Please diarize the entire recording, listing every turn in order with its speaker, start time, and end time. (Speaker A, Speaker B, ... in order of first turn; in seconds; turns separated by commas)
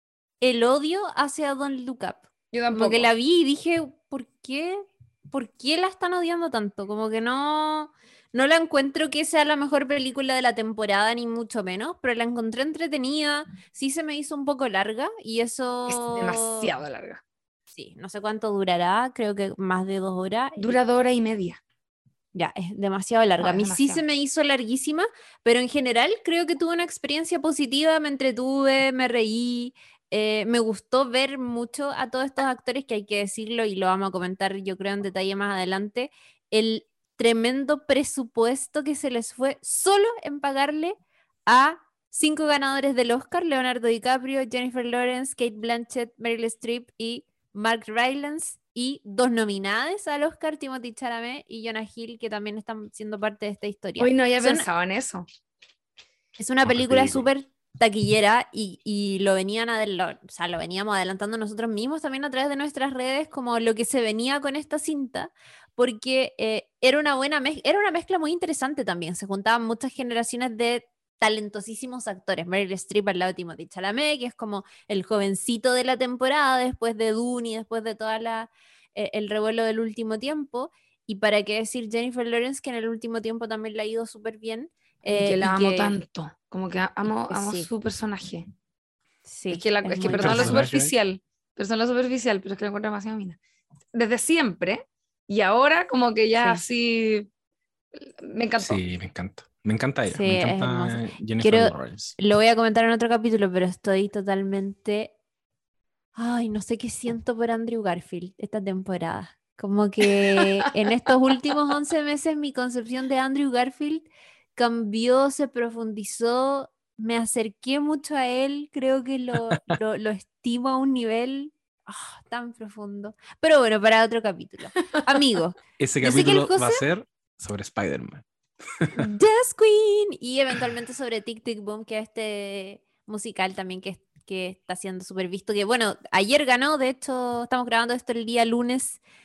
Speaker A: 0.4-16.7, Speaker B: 2.5-3.1, Speaker B: 15.9-17.2, Speaker A: 17.7-20.8, Speaker B: 20.6-21.6, Speaker A: 22.3-54.6, Speaker B: 23.4-24.0, Speaker B: 54.0-55.3, Speaker A: 56.4-86.0, Speaker C: 56.6-57.3, Speaker B: 85.1-88.5, Speaker A: 87.3-87.7, Speaker A: 89.3-90.6, Speaker B: 89.5-93.4, Speaker C: 90.1-90.9, Speaker B: 93.9-97.3, Speaker A: 96.4-96.6, Speaker B: 98.0-98.8, Speaker C: 98.6-102.1, Speaker A: 100.1-105.1, Speaker A: 106.2-126.8, Speaker C: 119.3-119.7, Speaker C: 125.8-128.2, Speaker C: 128.8-129.1, Speaker A: 129.0-139.0